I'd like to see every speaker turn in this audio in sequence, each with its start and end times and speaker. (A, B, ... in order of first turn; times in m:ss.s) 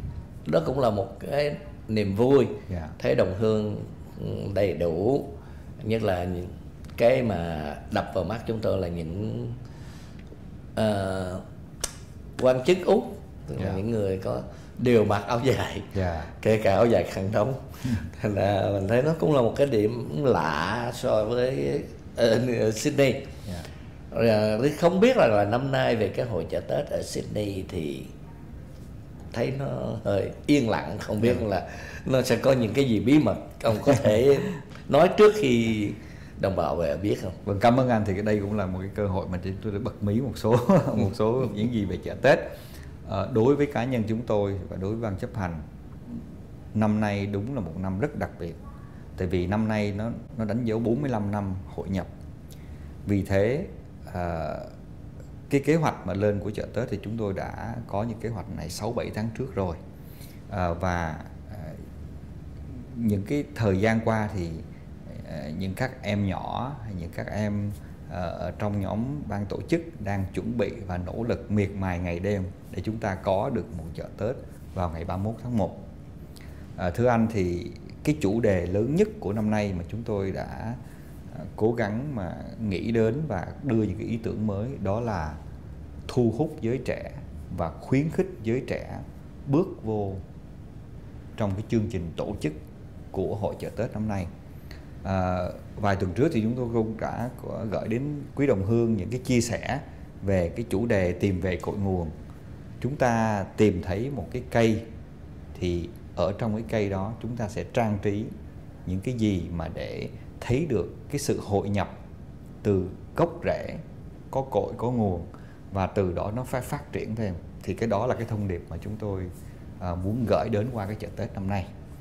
0:00.4-0:09.6 A
0:02.7-0:02.9 B
0:10.8-0:11.4 A
0:12.4-0:23.3 A
0:15.9-0:16.3 B
0:24.1-0:28.1 A
0:29.3-0:37.4 A
0:37.4-0:42.4 B
0:43.0-0:45.6 B
0:46.7-0:48.6 B
0:49.2-0:52.1 B
0:53.0-0:54.7 B
0:55.5-0:59.8 B
1:00.5-1:01.8 B
1:02.7-1:15.8 B
1:16.8-1:20.8 B
1:21.3-1:25.4 B
1:26.1-1:30.2 B
1:31.4-1:32.5 B
1:33.1-1:34.3 B
1:35.0-1:42.1 B
1:42.8-1:44.9 B
1:45.5-1:48.3 B
1:48.8-1:51.9 B
1:52.6-2:01.7 B